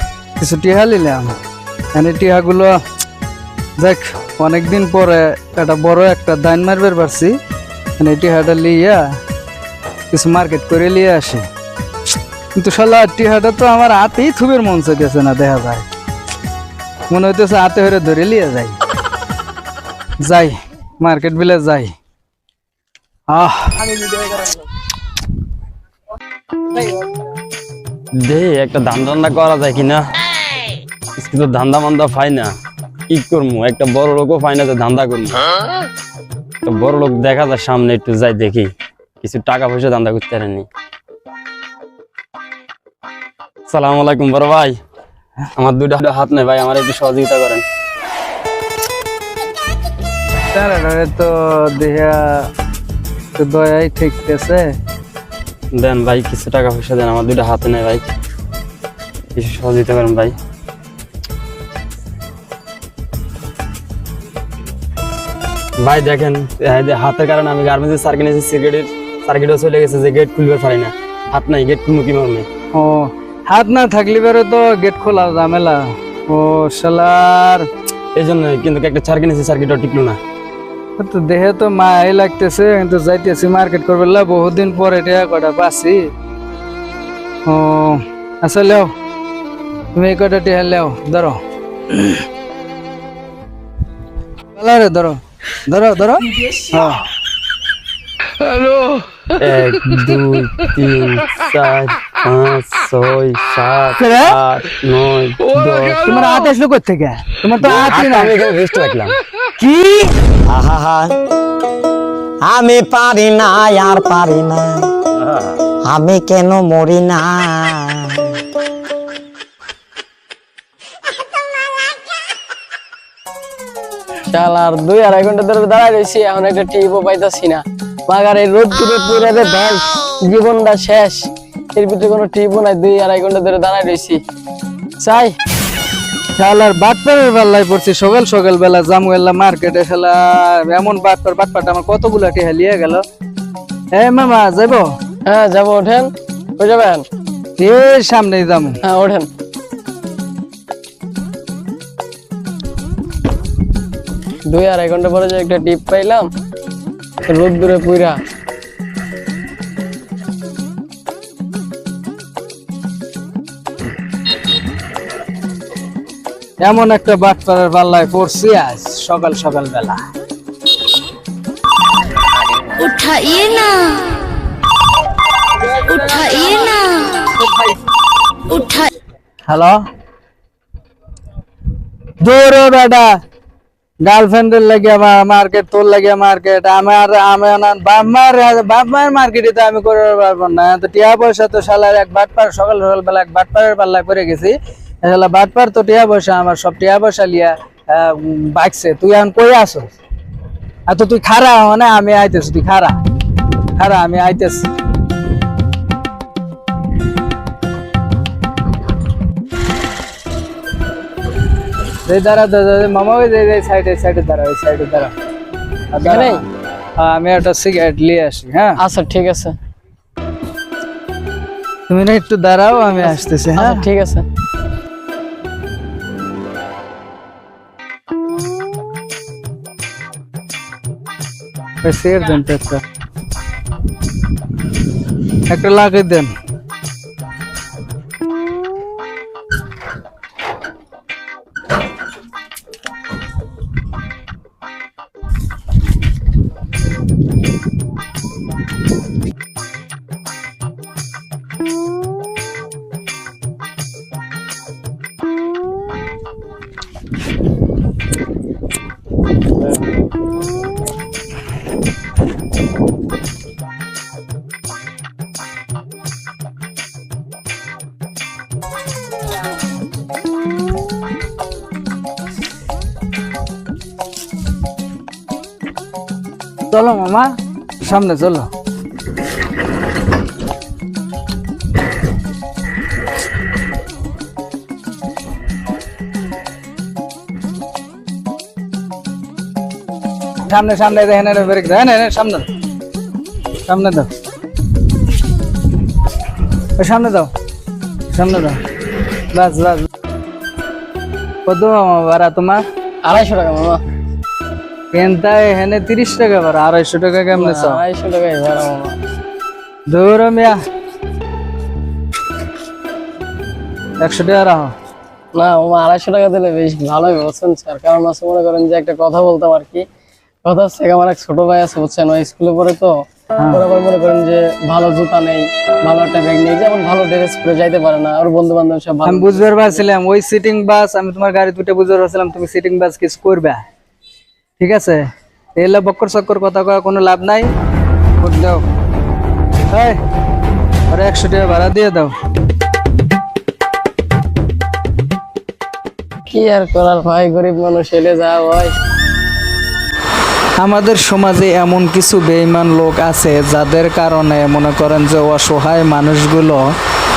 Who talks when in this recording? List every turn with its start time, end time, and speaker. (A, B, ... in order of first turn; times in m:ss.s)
0:00.4-0:01.4 A
0:01.9-0:02.8 A
0:03.8-0:07.4 A
0:08.0-0:09.1 A
0:10.1-0:11.4 A
0:12.5-0:15.8 A
0:17.1-0:18.8 A
0:20.2-0:21.9 A
0:23.3-0:23.9 A
0:28.1-0:30.0 B
0:31.2-0:32.5 B
0:33.1-0:35.4 B
0:36.6-0:38.7 B
0:39.2-0:40.7 B
0:43.7-0:44.8 B
0:45.6-0:47.6 B
0:50.5-0:52.5 A
0:53.3-0:54.8 A
0:55.7-0:58.0 B
0:59.3-1:00.3 B
1:05.8-1:12.5 B
1:12.7-1:17.7 A
1:18.1-1:20.2 B
1:21.0-1:26.1 A
1:27.4-1:28.9 A
1:29.9-1:31.4 A
1:34.6-1:37.0 A
1:39.3-1:46.1 B
1:44.0-1:44.3 A
1:46.0-1:48.3 A
1:47.6-1:49.2 B
1:50.5-1:51.0 C
1:52.4-1:54.8 C
1:55.9-1:57.9 C
2:04.3-2:14.2 D
2:15.0-2:15.4 D
2:16.4-2:23.0 A
2:23.9-2:24.9 A
2:25.2-2:27.0 D
2:27.6-2:28.8 A
2:28.8-2:29.3 D
2:34.4-2:36.3 D
2:37.2-2:38.2 D
2:46.6-2:50.0 A
2:52.8-2:54.1 E
2:55.9-2:57.3 E
2:56.0-2:56.5 A
2:57.4-2:57.7 A
2:58.5-2:58.9 E
2:59.5-2:59.8 A
3:02.2-3:03.2 A
3:04.0-3:19.9 A
3:20.9-3:23.0 A
3:23.8-3:24.7 A
3:32.0-3:35.1 A
3:35.9-3:36.4 A
3:36.0-3:36.4 D
3:37.0-3:38.8 A
3:38.8-3:39.5 D
3:41.9-3:43.8 A
3:43.0-3:44.2 D
3:51.8-3:52.8 A
3:55.5-3:56.3 A
4:36.7-4:38.5 A
4:50.4-4:52.5 A
4:53.6-4:54.1 A
4:56.8-4:57.3 A
4:58.1-4:58.6 A
4:59.3-4:59.9 A
5:01.4-5:02.6 A
5:03.0-5:03.8 D
5:04.9-5:07.8 A
5:07.3-5:09.0 D
5:09.9-5:10.6 A
5:14.0-5:14.7 A
5:15.3-5:19.8 D
5:20.4-5:22.9 D
5:23.5-5:29.9 D
5:29.0-5:33.6 A
5:34.6-5:35.0 A
5:35.6-5:37.5 A
5:38.2-5:38.6 A
5:39.7-5:40.0 A
5:40.9-5:42.1 A
5:46.3-5:48.7 D
5:50.6-5:56.6 A